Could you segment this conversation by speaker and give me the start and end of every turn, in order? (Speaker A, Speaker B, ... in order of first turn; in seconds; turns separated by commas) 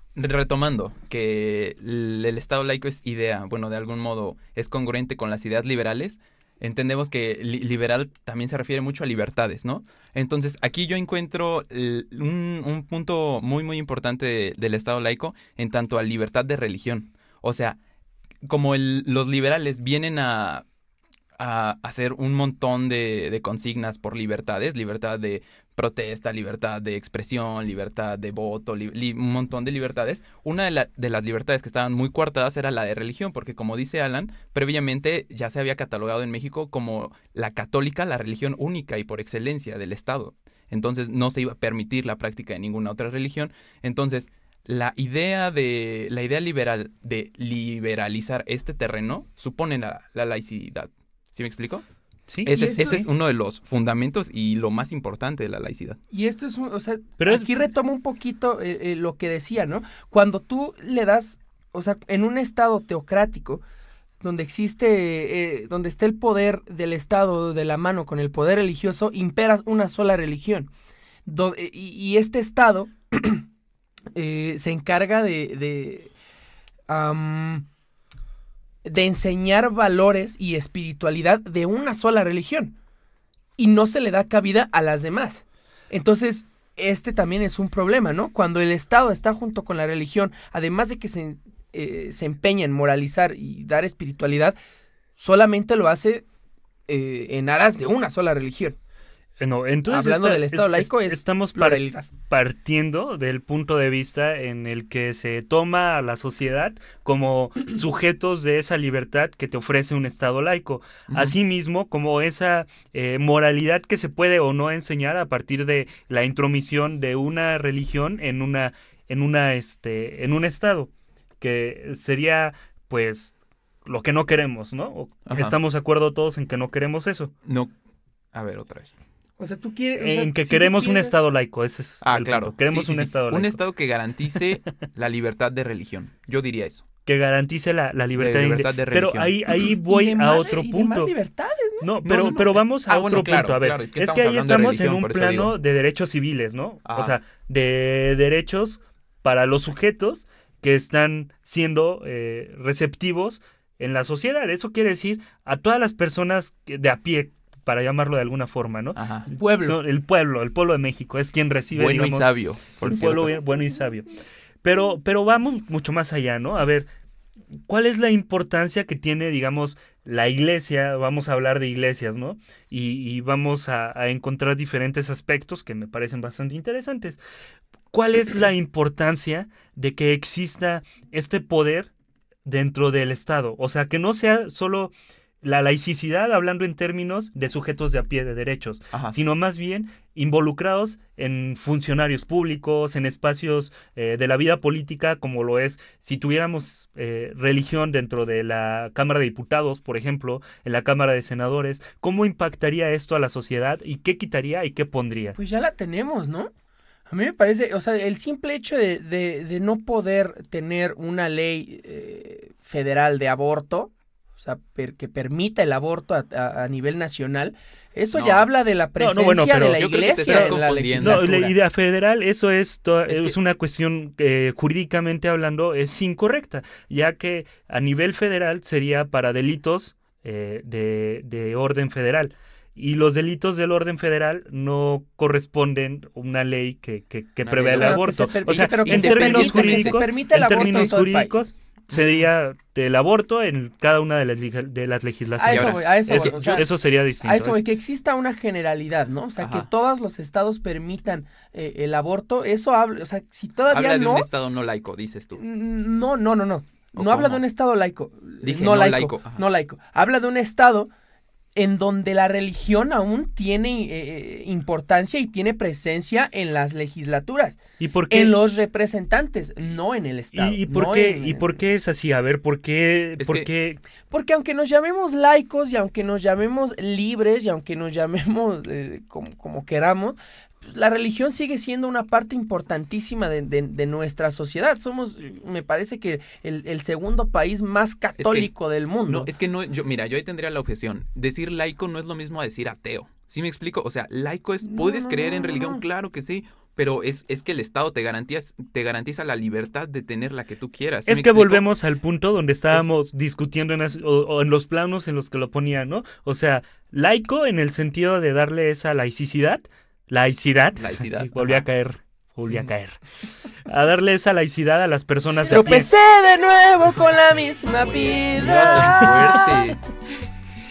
Speaker A: 0.1-17.8, Speaker A: 18.4-20.6, Speaker A: 21.4-51.8, Speaker B: 52.3-53.0, Speaker A: 52.4-56.0, Speaker C: 52.5-53.0, Speaker C: 56.1-63.6, Speaker B: 57.2-57.5, Speaker C: 64.2-70.7, Speaker C: 71.2-73.4, Speaker C: 74.1-76.1, Speaker C: 76.9-77.7, Speaker C: 78.8-82.8, Speaker C: 83.6-94.5, Speaker C: 95.2-96.2, Speaker C: 96.9-98.8, Speaker B: 99.4-120.9, Speaker C: 99.9-102.1, Speaker A: 111.1-111.4, Speaker B: 121.4-127.3, Speaker A: 125.3-125.5, Speaker A: 127.5-127.7, Speaker A: 128.3-129.0, Speaker C: 129.4-131.1, Speaker B: 130.0-133.6, Speaker A: 132.0-136.8, Speaker B: 137.1-141.1, Speaker A: 138.1-139.3, Speaker C: 139.9-141.9, Speaker B: 141.8-162.2, Speaker A: 142.0-145.5, Speaker A: 146.8-147.2, Speaker A: 158.9-159.3, Speaker C: 159.3-159.8, Speaker A: 161.7-163.4, Speaker B: 162.8-164.1, Speaker B: 164.6-166.9, Speaker B: 167.7-177.2, Speaker B: 177.9-181.9, Speaker B: 182.4-205.4, Speaker C: 205.3-206.5, Speaker C: 207.1-221.5, Speaker A: 218.1-218.5, Speaker B: 219.0-247.6, Speaker A: 219.8-221.5, Speaker A: 223.1-223.3, Speaker A: 237.4-238.0, Speaker C: 237.8-241.4, Speaker A: 238.7-241.0, Speaker A: 241.9-242.3, Speaker C: 245.4-246.7, Speaker A: 245.5-246.7, Speaker C: 247.2-254.3, Speaker A: 249.4-249.7, Speaker A: 253.7-255.4, Speaker C: 255.3-260.9, Speaker A: 256.9-257.4, Speaker A: 258.4-259.4, Speaker C: 261.6-271.6, Speaker B: 267.8-268.4, Speaker B: 270.3-273.8, Speaker A: 273.2-273.5, Speaker C: 274.1-289.3, Speaker A: 288.2-288.5, Speaker A: 289.1-301.6, Speaker C: 294.6-295.8, Speaker B: 301.1-313.0, Speaker A: 310.8-311.6, Speaker B: 313.6-315.9, Speaker C: 315.4-319.6, Speaker A: 317.9-319.8, Speaker B: 318.4-319.5